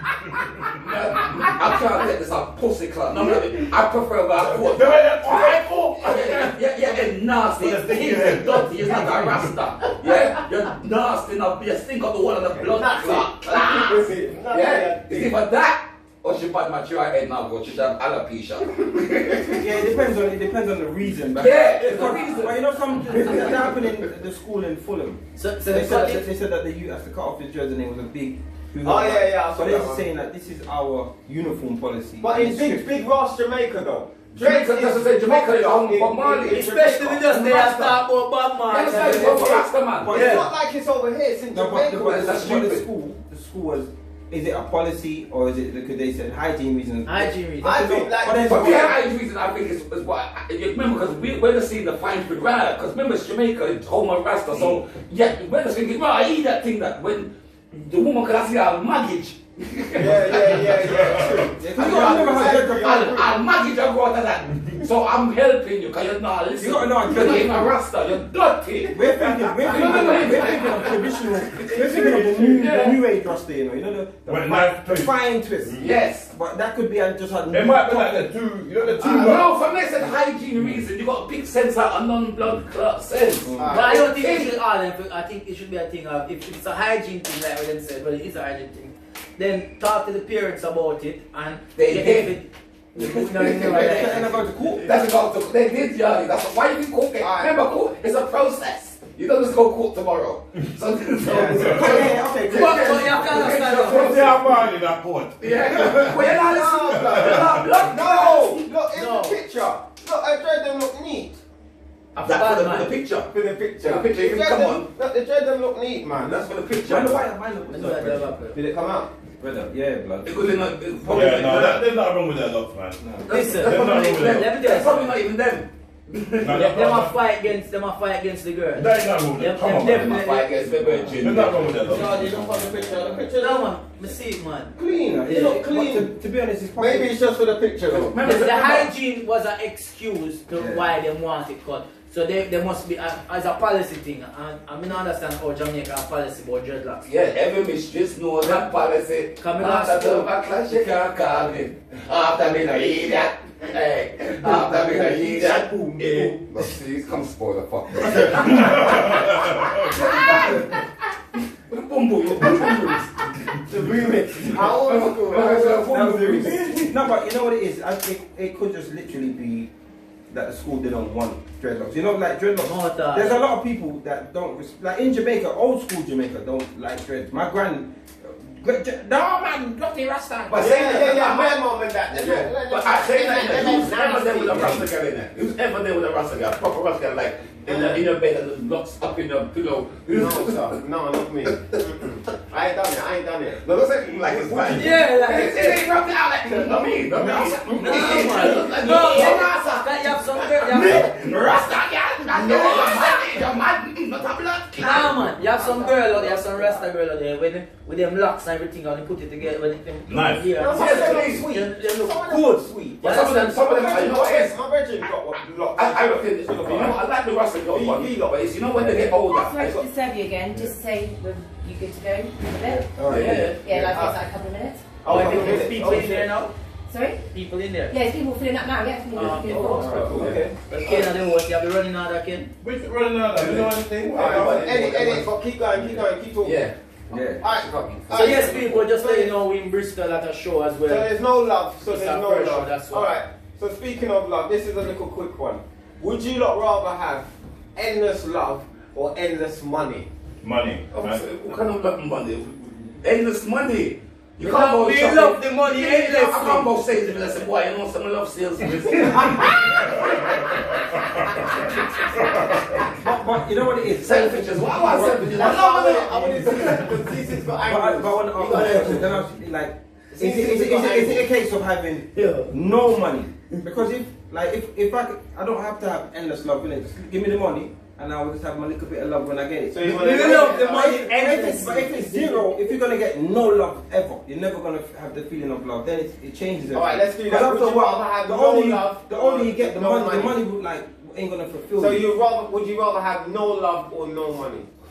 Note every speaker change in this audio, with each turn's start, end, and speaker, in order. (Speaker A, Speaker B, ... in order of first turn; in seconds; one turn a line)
Speaker A: 0.2-0.8
Speaker B: 0.7-20.0
Speaker A: 4.4-6.5
Speaker A: 7.6-9.4
Speaker C: 12.6-15.4
Speaker D: 19.5-32.9
Speaker B: 21.3-23.8
Speaker E: 25.4-26.2
Speaker C: 28.8-30.1
Speaker C: 32.2-37.9
Speaker B: 34.3-36.7
Speaker E: 36.5-40.4
Speaker B: 37.3-37.9
Speaker B: 38.7-40.1
Speaker C: 39.0-39.5
Speaker D: 40.0-40.5
Speaker C: 40.1-42.4
Speaker D: 41.5-48.9
Speaker B: 42.0-42.8
Speaker E: 47.0-47.9
Speaker C: 47.6-49.0
Speaker B: 48.4-61.0
Speaker C: 60.0-63.3
Speaker A: 60.3-61.5
Speaker D: 61.6-63.2
Speaker B: 61.7-73.0
Speaker D: 66.6-67.7
Speaker D: 68.9-78.2
Speaker A: 74.3-75.1
Speaker B: 75.8-76.3
Speaker A: 77.5-79.5
Speaker B: 79.0-84.5
Speaker D: 83.4-83.8
Speaker C: 83.5-84.1
Speaker E: 83.7-94.3
Speaker B: 91.8-92.4
Speaker B: 93.0-104.5
Speaker D: 93.3-94.9
Speaker C: 97.2-97.5
Speaker C: 101.2-102.0
Speaker D: 101.2-104.0
Speaker E: 102.5-104.2
Speaker A: 103.8-106.3
Speaker B: 105.4-108.6
Speaker C: 106.2-111.4
Speaker A: 106.9-107.7
Speaker E: 108.9-109.4
Speaker E: 112.1-112.9
Speaker B: 112.2-113.3
Speaker C: 113.3-116.6
Speaker B: 113.8-114.9
Speaker B: 116.1-117.3
Speaker D: 116.8-118.4
Speaker E: 117.7-118.6
Speaker C: 118.5-119.1
Speaker D: 119.4-121.5
Speaker B: 120.2-121.9
Speaker A: 121.1-123.0
Speaker B: 123.2-126.7
Speaker E: 123.3-125.1
Speaker A: 123.5-124.5
Speaker A: 126.4-127.1
Speaker E: 126.6-130.5
Speaker A: 128.7-130.2
Speaker B: 129.9-133.1
Speaker D: 130.7-131.2
Speaker A: 131.2-132.1
Speaker C: 131.8-133.7
Speaker E: 133.4-134.7
Speaker D: 134.7-137.1
Speaker E: 135.2-135.6
Speaker C: 135.3-136.1
Speaker C: 136.8-138.3
Speaker B: 137.9-138.9
Speaker E: 138.1-147.1
Speaker D: 140.5-140.9
Speaker B: 147.0-160.6
Speaker E: 149.4-150.3
Speaker C: 154.4-156.3
Speaker D: 155.4-156.2
Speaker C: 158.4-159.0
Speaker A: 158.5-159.9
Speaker C: 159.9-160.6
Speaker B: 161.7-163.2
Speaker C: 163.7-165.8
Speaker B: 163.8-166.8
Speaker D: 165.7-169.7
Speaker D: 170.3-179.5
Speaker E: 172.6-173.4
Speaker B: 179.5-190.8
Speaker C: 180.5-184.9
Speaker C: 187.7-188.1
Speaker C: 190.1-194.9
Speaker B: 193.6-206.7
Speaker E: 194.7-195.9
Speaker E: 196.4-196.9
Speaker D: 197.1-198.7
Speaker E: 197.8-201.1
Speaker D: 200.7-201.6
Speaker C: 202.5-203.2
Speaker E: 204.8-213.6
Speaker A: 210.1-210.5
Speaker C: 210.5-217.0
Speaker B: 210.6-211.4
Speaker B: 213.0-214.6
Speaker B: 215.7-219.8
Speaker C: 217.7-218.5
Speaker D: 218.8-219.1
Speaker F: 219.2-225.0
Speaker D: 222.8-223.5
Speaker B: 223.1-223.5
Speaker E: 223.2-223.6
Speaker C: 223.7-224.2
Speaker C: 225.0-226.3
Speaker E: 225.1-226.5
Speaker D: 225.1-225.7
Speaker F: 226.9-227.2
Speaker E: 227.3-227.9
Speaker F: 227.9-230.2
Speaker E: 229.1-230.1
Speaker C: 229.5-230.4
Speaker D: 229.6-230.5
Speaker B: 230.1-230.4
Speaker E: 230.7-232.5
Speaker A: 232.6-235.2
Speaker B: 233.3-235.2
Speaker C: 234.1-236.6
Speaker B: 236.4-238.8
Speaker D: 237.1-237.4
Speaker C: 237.4-239.3
Speaker E: 238.1-241.1
Speaker C: 240.8-250.1
Speaker E: 241.8-243.2
Speaker A: 250.4-251.2
Speaker B: 250.9-260.4
Speaker E: 254.4-256.7
Speaker A: 260.0-260.6
Speaker D: 262.9-265.5
Speaker B: 263.9-266.9
Speaker C: 264.8-269.2
Speaker D: 267.6-292.1
Speaker E: 268.4-269.0
Speaker C: 270.1-271.3
Speaker E: 272.1-272.5
Speaker C: 279.7-281.1
Speaker E: 279.8-282.5
Speaker C: 286.7-290.4
Speaker C: 291.8-294.7